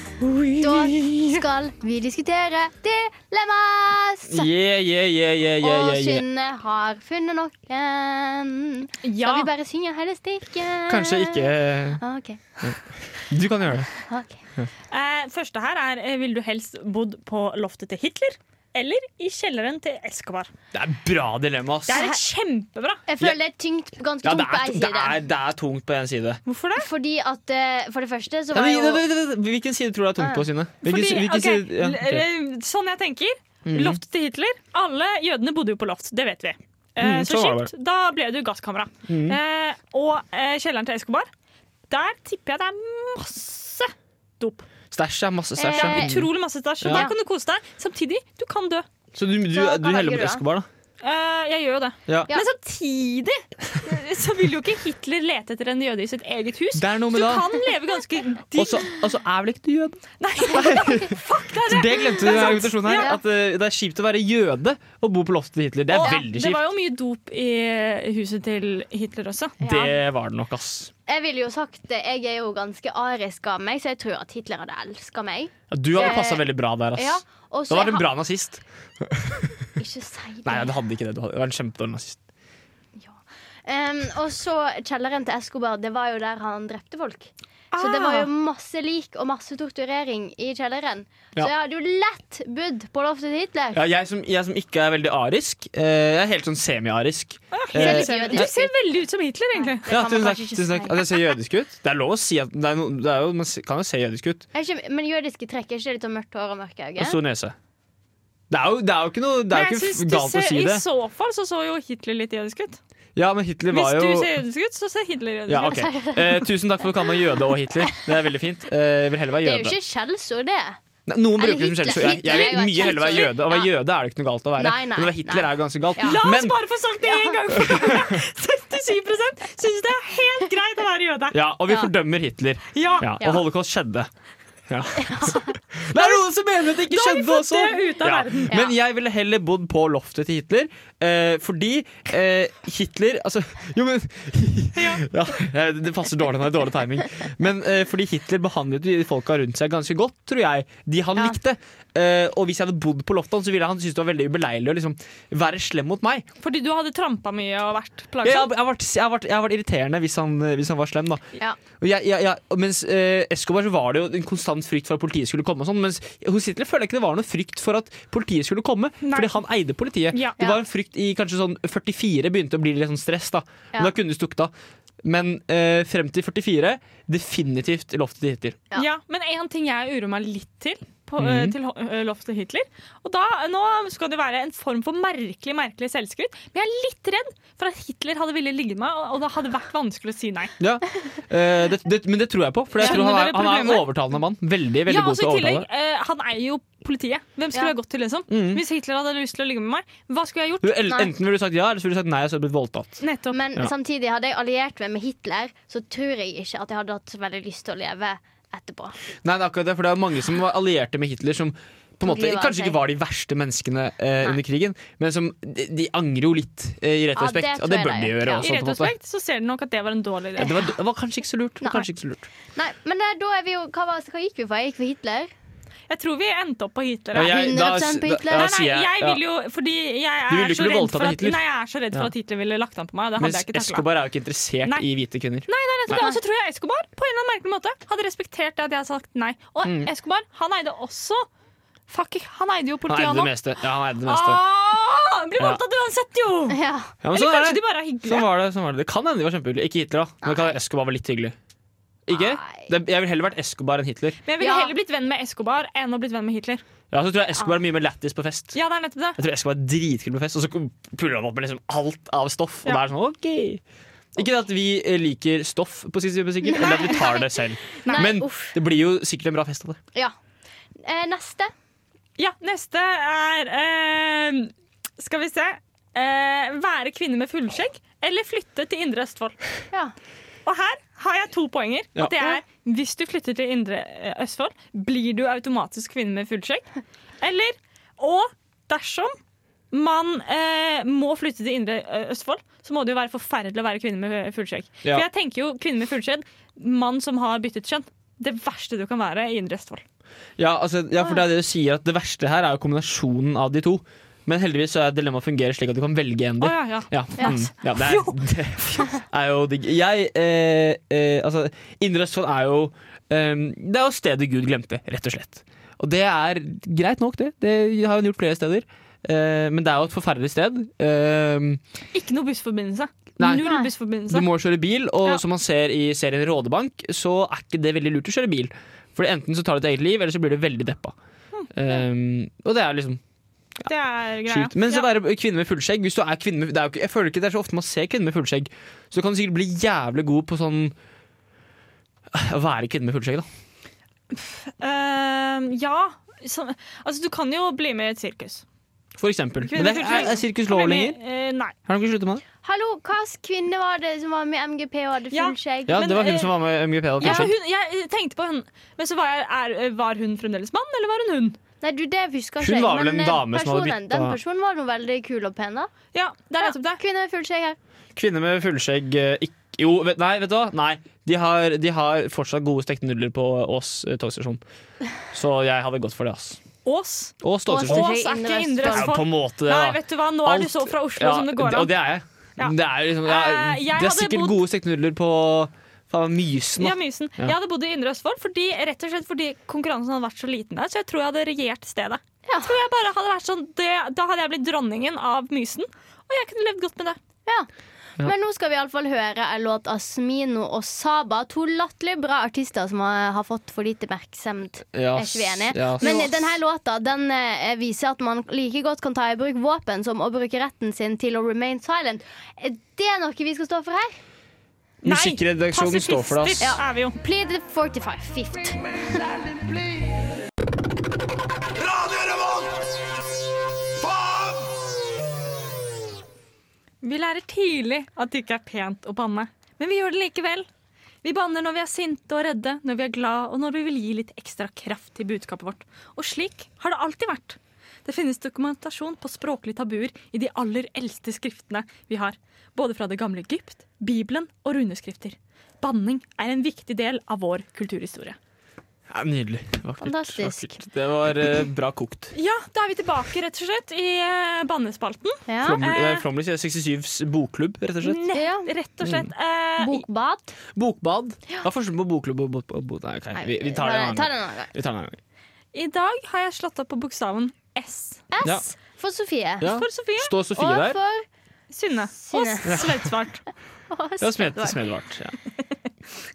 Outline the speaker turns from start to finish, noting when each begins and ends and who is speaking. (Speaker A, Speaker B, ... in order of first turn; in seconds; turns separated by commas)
Speaker A: 0.6-1.1, Speaker B: 0.6-4.5, Speaker A: 4.3-6.2, Speaker B: 5.6-12.7, Speaker C: 9.0-9.5, Speaker A: 10.9-12.0, Speaker A: 12.6-13.9, Speaker B: 14.0-14.4, Speaker C: 14.9-20.5, Speaker A: 20.7-22.1, Speaker C: 21.9-23.0, Speaker B: 21.9-22.2, Speaker B: 23.1-25.2, Speaker A: 24.2-26.4, Speaker C: 26.4-26.9, Speaker B: 26.8-29.0, Speaker A: 28.5-32.2, Speaker B: 30.2-30.4, Speaker C: 30.8-41.3, Speaker A: 33.6-34.0, Speaker A: 37.0-37.7, Speaker A: 39.1-39.4, Speaker C: 41.9-44.6, Speaker A: 44.9-47.1, Speaker B: 45.6-46.1, Speaker C: 45.7-48.9, Speaker B: 46.9-47.1, Speaker A: 49.1-50.7, Speaker B: 49.5-50.4, Speaker C: 51.0-58.9, Speaker A: 52.1-52.3, Speaker A: 56.7-57.5, Speaker A: 58.5-66.6, Speaker C: 60.2-63.1, Speaker B: 62.3-63.2, Speaker C: 65.9-69.6, Speaker B: 69.6-70.0, Speaker A: 69.6-70.9, Speaker B: 71.1-78.1, Speaker A: 75.7-79.4, Speaker B: 79.8-80.7, Speaker A: 80.4-82.2, Speaker B: 83.0-93.8, Speaker C: 87.7-88.3, Speaker A: 93.7-98.5, Speaker C: 97.5-99.9, Speaker B: 97.7-98.7, Speaker B: 99.5-101.3, Speaker A: 99.9-104.4, Speaker B: 104.5-107.2, Speaker A: 107.0-107.5, Speaker A: 108.5-110.8, Speaker C: 109.5-112.8, Speaker A: 113.1-114.3, Speaker C: 113.7-115.9, Speaker A: 115.5-119.7, Speaker B: 115.7-116.5, Speaker B: 119.4-120.8, Speaker A: 121.1-126.5, Speaker B: 121.4-123.7, Speaker C: 122.0-123.1, Speaker B: 124.6-126.2, Speaker C: 126.0-131.4, Speaker A: 127.6-128.2, Speaker A: 131.3-134.1, Speaker C: 132.7-133.3, Speaker A: 134.7-156.2, Speaker B: 134.9-135.5, Speaker C: 135.9-138.6, Speaker C: 144.7-145.0, Speaker C: 156.4-158.5, Speaker A: 158.2-161.2, Speaker A: 161.8-174.5, Speaker C: 169.0-169.3, Speaker C: 170.1-170.4, Speaker A: 175.0-178.6, Speaker C: 178.8-190.5, Speaker A: 181.2-181.6, Speaker A: 190.6-195.7, Speaker C: 192.8-193.9, Speaker C: 194.9-200.8, Speaker A: 198.3-198.6, Speaker A: 200.6-203.0, Speaker C: 203.0-203.4, Speaker B: 203.3-208.9, Speaker A: 209.2-218.9, Speaker B: 212.0-212.8, Speaker B: 217.2-218.4, Speaker C: 218.4-220.6, Speaker A: 220.4-222.3, Speaker B: 221.6-221.9, Speaker B: 222.5-225.3, Speaker C: 225.9-227.4, Speaker A: 227.1-229.2, Speaker B: 227.2-228.5, Speaker C: 228.3-233.9, Speaker A: 230.3-231.4, Speaker A: 233.2-236.1, Speaker C: 235.5-241.3, Speaker A: 239.6-239.9, Speaker C: 241.9-246.6, Speaker A: 242.9-244.4, Speaker B: 246.5-246.9, Speaker A: 247.0-251.3, Speaker C: 247.1-248.3, Speaker B: 250.2-250.6, Speaker A: 252.1-254.2, Speaker B: 252.1-252.7, Speaker C: 254.2-256.6, Speaker B: 254.4-254.7, Speaker A: 256.9-258.6, Speaker C: 258.5-259.2, Speaker A: 259.2-263.6, Speaker A: 264.1-269.8, Speaker B: 266.5-267.2, Speaker C: 266.6-267.2, Speaker B: 267.8-268.6, Speaker B: 270.8-271.5, Speaker C: 272.2-279.4, Speaker C: 280.4-286.7, Speaker C: 287.2-289.1, Speaker C: 289.7-299.8, Speaker A: 300.4-321.6, Speaker C: 306.4-308.9, Speaker C: 321.9-324.3, Speaker A: 323.2-323.5, Speaker B: 323.4-323.7, Speaker A: 324.1-330.9, Speaker C: 331.3-331.7, Speaker A: 331.5-333.0, Speaker C: 333.6-334.9, Speaker A: 334.2-340.7, Speaker A: 342.1-343.2, Speaker C: 344.1-348.4, Speaker A: 349.0-351.0, Speaker C: 349.4-351.5, Speaker A: 351.6-352.2, Speaker B: 352.4-356.1, Speaker C: 355.1-356.4, Speaker A: 355.7-357.3, Speaker C: 357.0-361.4, Speaker B: 357.0-357.3, Speaker B: 361.6-365.7, Speaker A: 362.4-364.2, Speaker C: 365.9-366.8, Speaker B: 366.4-367.6, Speaker A: 367.9-374.4, Speaker A: 375.1-376.4, Speaker C: 376.6-381.7, Speaker A: 377.2-377.9, Speaker B: 377.5-379.0, Speaker A: 378.7-387.3, Speaker C: 382.4-384.4, Speaker C: 386.6-397.0, Speaker B: 392.2-392.6, Speaker B: 398.0-414.0, Speaker A: 404.7-406.0, Speaker C: 405.8-406.1, Speaker A: 414.8-416.5, Speaker C: 414.8-416.9, Speaker B: 416.4-419.3, Speaker C: 426.8-430.5, Speaker C: 431.0-448.2, Speaker A: 448.9-452.1, Speaker B: 449.8-450.6, Speaker C: 452.1-456.1, Speaker B: 455.3-455.6, Speaker A: 455.4-458.0, Speaker C: 457.8-459.8, Speaker B: 458.1-458.5, Speaker A: 458.8-459.1, Speaker B: 459.6-460.3, Speaker A: 460.5-465.0, Speaker B: 463.1-464.5, Speaker C: 465.5-468.1, Speaker B: 468.1-469.5, Speaker A: 469.4-470.8, Speaker C: 469.4-470.1, Speaker B: 470.3-471.0, Speaker C: 471.5-473.2, Speaker B: 472.0-472.6, Speaker A: 472.4-472.9, Speaker B: 473.7-474.6, Speaker A: 474.0-475.2